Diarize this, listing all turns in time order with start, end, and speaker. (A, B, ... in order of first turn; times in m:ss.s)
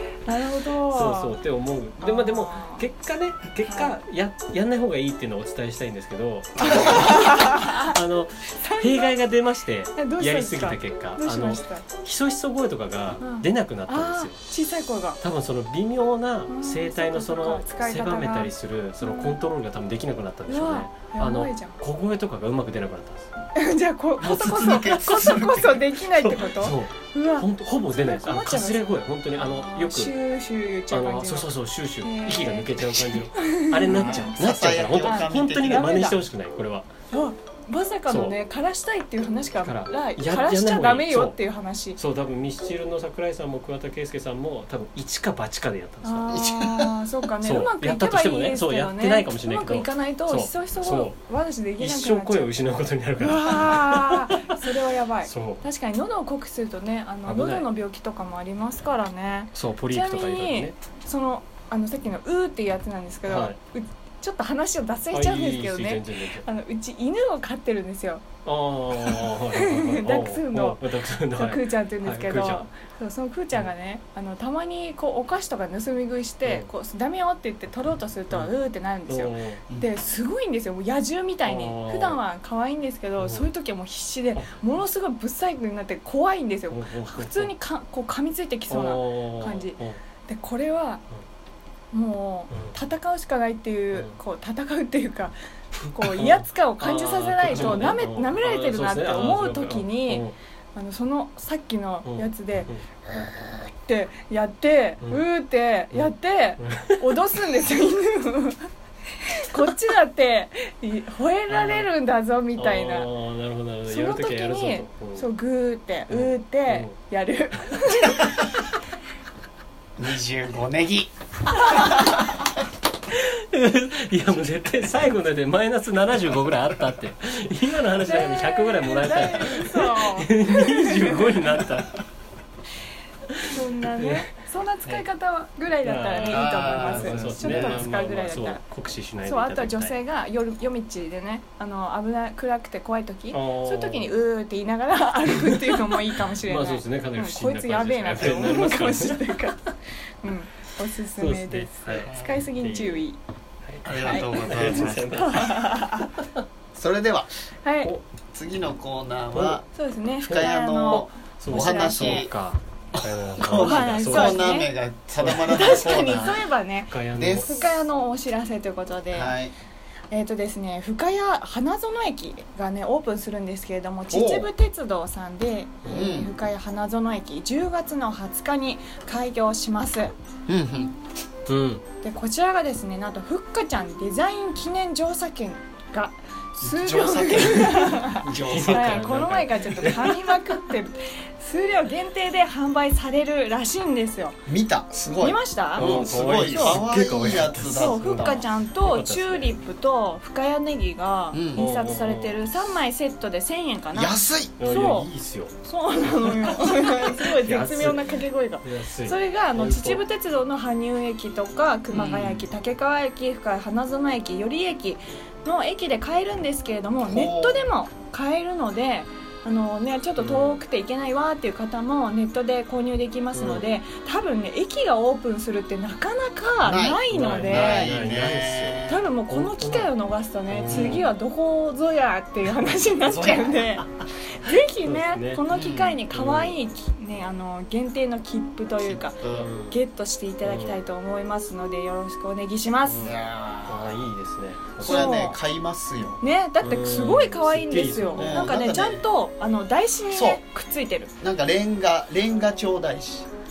0:00.2-0:01.4 A
0:00.9-0:14.4 B
0:02.0-0:02.9 A
0:03.6-0:04.0 A
0:06.6-0:08.0 A
0:08.5-0:09.2 A
0:10.0-0:11.9 A
0:13.2-0:15.2 A
0:15.2-0:23.3 B
0:16.5-0:19.4 A
0:20.5-0:21.8 A
0:23.6-0:34.4 A
0:24.2-0:25.8 C
0:24.9-0:25.4 B
0:26.0-0:30.2 B
0:30.9-0:36.9 B
0:33.9-0:36.2 C
0:35.0-0:36.2 A
0:37.1-0:42.0 A
0:38.1-0:38.4 B
0:39.6-0:41.4 B
0:42.0-0:46.4 B
0:46.0-0:52.6 A
0:46.3-0:47.0 C
0:47.4-0:51.2 B
0:51.8-0:54.6 B
0:53.2-1:08.2 A
0:55.2-0:55.6 B
0:57.2-0:57.7 B
0:59.5-1:00.8 B
1:03.3-1:03.6 B
1:05.1-1:06.4 B
1:08.4-1:12.7 B
1:08.9-1:31.0 A
1:19.1-1:19.6 B
1:21.4-1:22.2 B
1:23.2-1:23.5 B
1:26.7-1:27.5 B
1:28.7-1:30.0 B
1:31.9-1:35.4 A
1:35.8-1:40.3 B
1:35.9-1:48.7 A
1:42.0-1:42.8 B
1:45.9-1:47.2 B
1:49.3-1:53.1 A
1:51.5-1:51.9 B
1:52.6-1:55.3 B
1:53.9-1:58.4 A
1:56.1-1:56.9 B
2:00.0-2:01.1 C
2:01.6-2:01.9 C
2:03.1-2:12.0 B
2:08.1-2:11.7 A
2:13.4-2:14.3 B
2:13.5-2:18.6 A
2:15.8-2:20.0 B
2:16.2-2:17.8 C
2:19.2-2:29.6 A
2:23.3-2:24.2 B
2:25.5-2:29.5 B
2:28.2-2:28.7 C
2:30.2-2:33.2 A
2:31.2-2:33.0 B
2:32.0-2:32.4 C
2:33.7-2:36.0 B
2:33.8-2:35.4 C
2:34.0-2:36.1 A
2:36.8-2:37.3 C
2:37.6-2:37.9 A
2:38.3-2:39.7 C
2:39.3-2:39.6 B
2:39.7-2:42.3 A
2:40.2-2:42.3 C
2:40.3-2:46.2 B
2:43.4-2:46.4 C
2:43.5-2:44.7 A
2:45.2-2:49.4 A
2:46.9-2:47.5 B
2:47.2-2:47.5 C
2:49.1-2:49.5 C
2:50.1-3:00.1 A
2:54.1-2:54.5 C
2:55.8-2:56.2 B
2:55.9-2:56.3 C
3:00.5-3:01.0 C
3:01.5-3:01.8 B
3:02.0-3:14.4 A
3:06.6-3:09.1 C
3:07.4-3:10.5 B
3:14.5-3:18.5 C
3:15.2-3:16.8 A
3:15.8-3:19.6 B
3:17.7-3:25.1 A
3:21.3-3:21.6 C
3:21.6-3:22.4 B
3:23.9-3:24.5 C
3:24.6-3:25.5 B
3:25.6-3:47.9 A
3:26.1-3:30.0 B
3:31.9-3:32.5 C
3:37.0-3:37.7 C
3:40.2-3:40.6 B
3:43.4-3:43.6 B
3:46.6-3:49.0 C
3:47.1-3:49.9 B
3:48.9-4:03.1 A
3:50.5-3:51.1 B
3:50.7-3:51.0 C
3:53.0-3:53.8 C
3:54.5-3:55.4 B
3:55.5-3:56.0 C
3:56.1-3:56.6 B
3:58.8-3:59.5 C
3:59.2-3:59.8 B
4:00.4-4:00.8 B
4:02.8-4:05.3 B
4:03.0-4:04.1 C
4:04.8-4:06.2 C
4:04.8-4:05.4 A
4:06.2-4:11.1 A
4:06.6-4:08.5 B
4:08.2-4:09.0 C
4:10.1-4:10.4 C
4:11.2-4:13.3 C